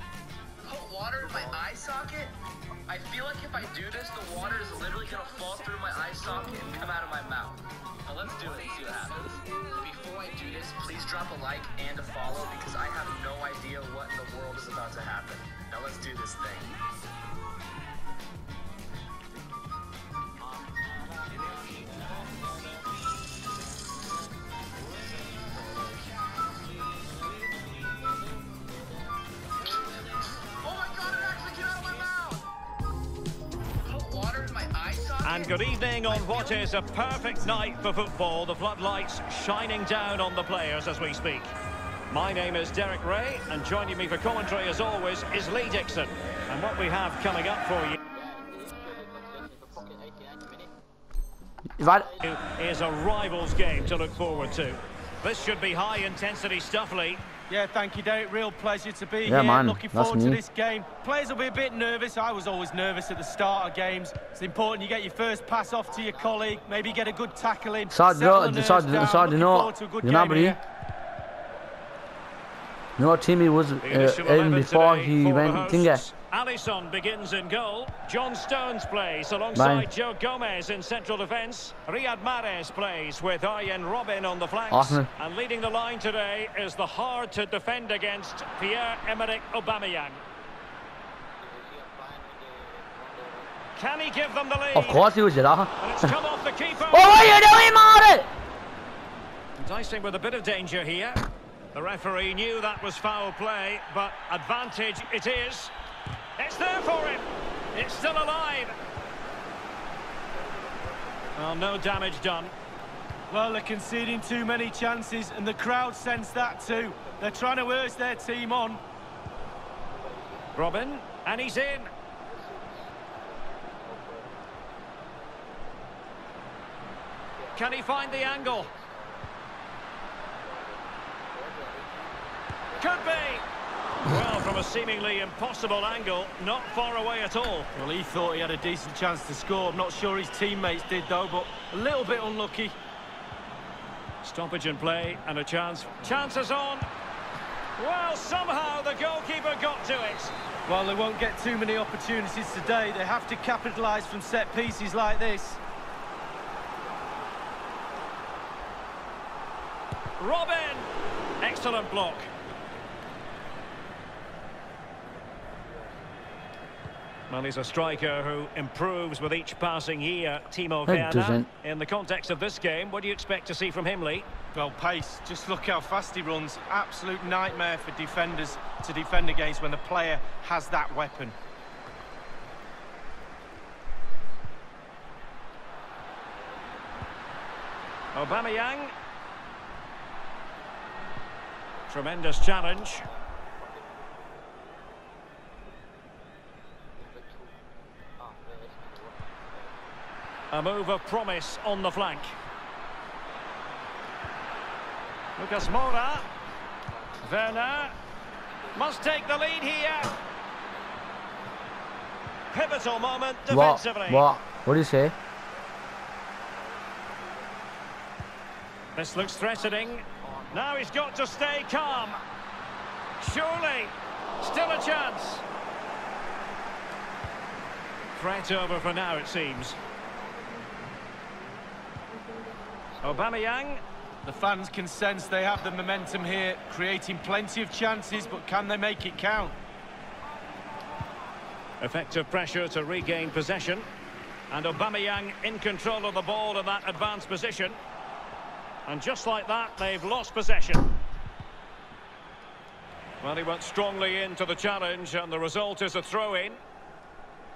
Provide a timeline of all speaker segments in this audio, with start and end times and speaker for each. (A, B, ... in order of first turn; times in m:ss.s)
0:00.6-0:16.8 A
0:30.6-0:32.5 A
0:33.8-0:36.6 A
0:35.2-0:41.5 B
0:42.1-0:48.0 B
0:48.2-0:50.7 A
0:51.8-0:52.1 C
0:52.2-0:57.2 B
0:57.5-1:10.6 D
0:59.2-1:00.4 C
1:07.9-1:10.6 C
1:13.0-1:16.0 C
1:13.8-1:30.2 B
1:19.6-1:19.9 C
1:24.7-1:25.1 C
1:31.4-1:33.5 A
1:33.8-1:35.1 B
1:34.7-1:36.1 C
1:35.8-1:37.4 B
1:36.9-1:38.3 C
1:39.6-1:41.2 B
1:41.7-1:45.7 B
1:46.4-1:48.7 B
1:51.4-1:52.6 B
1:53.3-1:58.8 D
2:00.6-2:01.9 B
2:03.9-2:04.3 A
2:07.5-2:08.7 B
2:08.8-2:09.2 A
2:10.5-2:10.8 A
2:11.4-2:12.0 A
2:12.8-2:13.5 B
2:14.0-2:17.7 B
2:17.8-2:22.7 D
2:24.2-2:26.8 B
2:27.8-2:30.3 B
2:30.7-2:35.6 D
2:40.2-2:40.9 B
2:41.4-2:42.3 B
2:47.3-2:54.3 B
2:50.9-2:51.5 C
2:54.5-3:01.4 D
3:08.1-3:08.9 B
3:11.9-3:13.1 B
3:18.3-3:19.3 A
3:20.5-3:22.4 B
3:25.4-3:26.3 B
3:27.2-3:28.0 B
3:28.7-3:30.2 B
3:32.5-3:34.3 B
3:33.5-3:35.1 C
3:36.6-3:37.5 A
3:38.9-3:42.2 B
3:43.2-3:45.4 B
3:48.2-3:49.8 B
3:53.0-3:53.8 B
3:54.3-3:59.5 D
4:01.8-4:03.9 B
4:04.5-4:07.8 B
4:08.8-4:10.8 B
4:13.2-4:16.6 B